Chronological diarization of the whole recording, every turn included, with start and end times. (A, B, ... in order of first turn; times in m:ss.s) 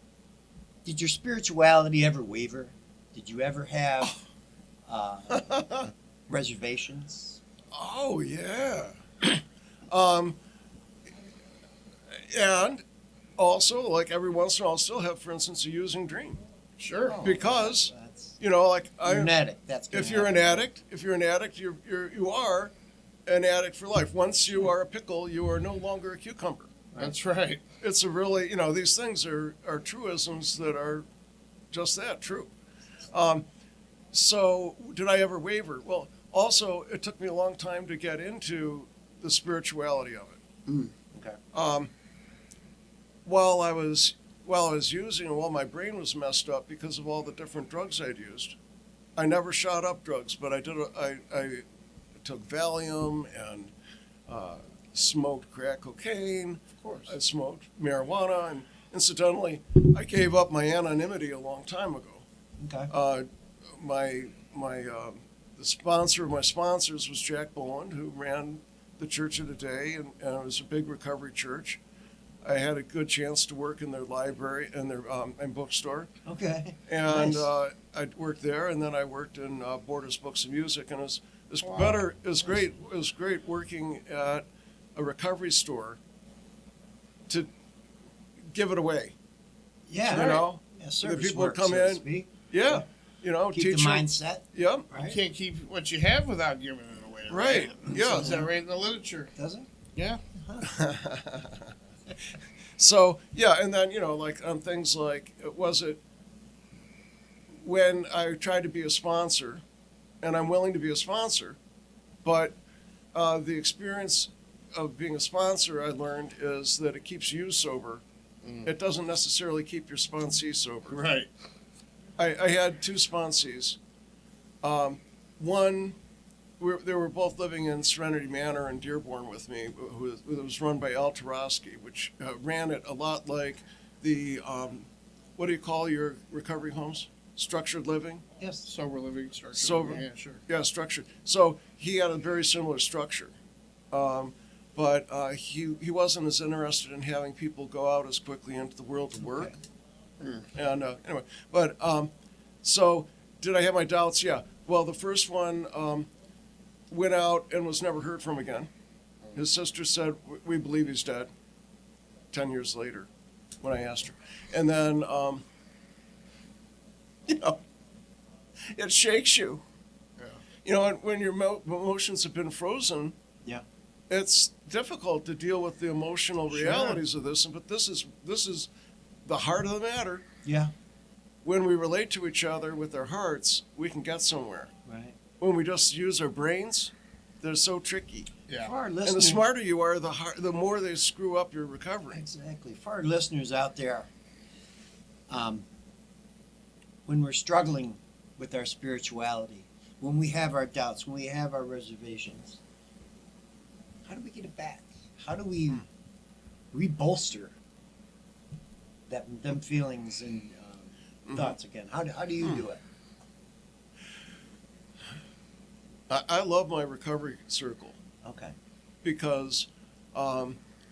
0:00.8-0:04.2 A
0:04.9-0:07.4 A
0:05.3-0:05.9 B
0:07.7-0:10.4 B
0:12.1-0:12.8 B
0:13.4-0:16.4 B
0:16.8-0:17.2 C
0:17.0-0:18.4 A
0:17.2-0:19.4 B
0:19.0-0:20.7 A
0:19.9-0:22.7 B
0:23.3-0:26.7 B
0:27.0-0:27.6 C
0:27.8-0:31.1 B
0:31.7-0:32.5 B
0:33.1-0:33.5 B
0:34.1-0:40.4 B
0:40.7-0:41.4 A
0:41.5-0:41.9 B
0:43.2-0:48.6 B
0:49.2-0:51.6 B
0:52.2-0:53.7 B
0:54.3-1:02.3 B
0:56.8-0:57.1 C
1:02.6-1:02.9 A
1:02.9-1:11.8 B
1:12.4-1:16.1 B
1:16.2-1:17.5 A
1:16.9-1:26.0 B
1:21.6-1:22.0 C
1:28.5-1:29.2 B
1:29.9-1:32.8 A
1:30.1-1:34.9 B
1:30.1-1:30.4 C
1:33.5-1:35.2 A
1:35.0-1:39.3 C
1:37.3-1:38.5 B
1:38.1-1:38.5 A
1:39.4-1:39.7 A
1:40.0-1:40.2 C
1:40.4-1:40.7 A
1:40.6-1:41.7 B
1:42.8-1:46.0 B
1:47.6-1:49.6 B
1:50.2-1:51.6 B
1:52.2-1:52.6 B
1:53.1-1:58.0 B
1:58.4-1:58.7 C
1:58.6-2:01.0 B
2:00.9-2:01.3 C
2:02.2-2:03.8 B
2:04.6-2:06.0 B
2:06.6-2:18.2 B
2:18.4-2:18.7 A
2:18.6-2:20.4 C
2:19.6-2:23.4 B
2:23.9-2:29.6 B
2:29.2-2:29.6 A
2:30.2-2:30.5 C
2:30.5-2:32.1 B
2:32.6-2:36.1 B
2:36.9-2:38.7 B
2:39.3-2:41.3 B
2:42.3-2:43.1 B
2:43.6-2:45.5 B
2:47.3-2:47.6 B
2:48.7-2:49.6 B
2:50.6-2:53.2 B
2:54.1-2:58.7 B
2:56.5-2:57.0 A
2:59.3-3:00.2 B
3:00.4-3:00.7 A
3:01.4-3:04.7 B
3:04.8-3:05.2 A
3:05.4-3:08.3 B
3:08.5-3:08.8 C
3:08.6-3:09.5 A
3:09.0-3:12.2 B
3:12.1-3:14.1 A
3:15.3-3:15.7 A
3:17.1-3:22.6 A
3:24.1-3:25.8 A
3:26.7-3:27.5 A
3:29.1-3:32.8 A
3:31.3-3:31.6 B
3:36.1-3:38.0 B
3:38.2-3:38.5 A
3:39.0-3:40.6 B